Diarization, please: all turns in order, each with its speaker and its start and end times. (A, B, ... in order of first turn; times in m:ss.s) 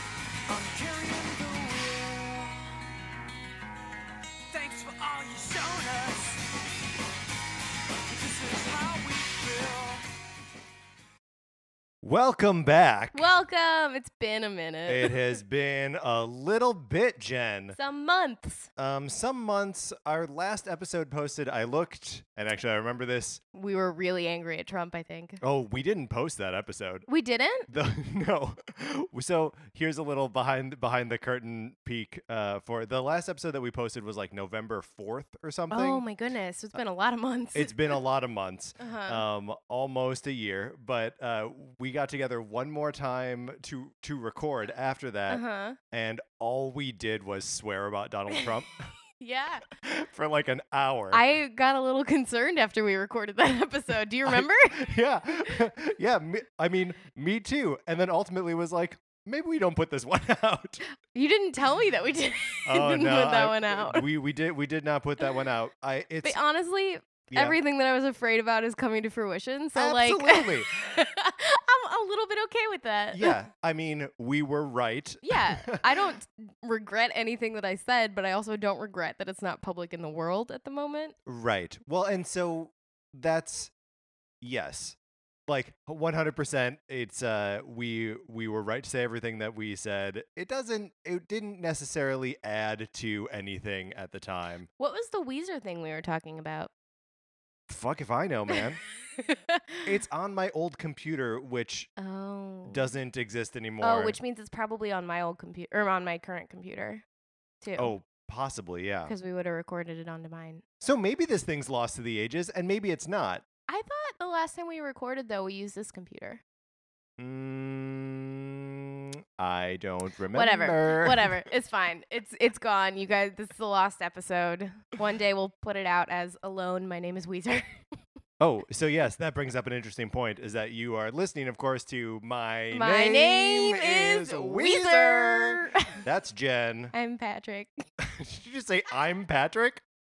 0:00.5-0:02.6 A
0:04.5-0:06.4 A
0:08.1-0:10.0 A
0:12.0-0:13.3 B
0:13.1-0:15.2 C
0:14.9-0:17.8 B
0:17.7-0:18.7 C
0:18.8-0:23.4 B
0:23.5-0:25.4 C
0:25.4-0:27.1 B
0:27.1-0:27.7 C
0:27.7-0:36.0 B
0:35.7-0:37.8 C
0:37.5-0:48.9 B
0:38.8-0:39.2 C
0:45.3-0:45.8 C
0:49.2-0:49.7 C
0:49.8-0:51.2 B
0:51.1-0:54.9 C
0:54.2-1:00.8 B
1:00.9-1:04.0 C
1:02.6-1:06.4 B
1:06.2-1:13.4 C
1:07.3-1:07.6 B
1:09.8-1:10.9 B
1:13.1-1:16.0 B
1:15.2-1:21.1 C
1:21.2-1:23.7 B
1:24.4-1:34.7 B
1:34.8-1:36.7 C
1:37.7-1:38.8 B
1:39.2-1:39.8 C
1:39.8-1:41.9 B
1:42.0-1:42.9 C
1:42.7-1:44.2 B
1:43.8-1:47.0 C
1:47.6-1:47.9 C
1:47.8-1:49.1 B
1:49.1-1:50.6 C
1:50.8-1:53.4 B
1:53.7-1:56.4 C
1:57.2-2:01.4 B
2:00.3-2:08.0 C
2:08.4-2:16.9 B
2:12.7-2:16.0 C
2:16.9-2:17.9 C
2:18.0-2:19.8 B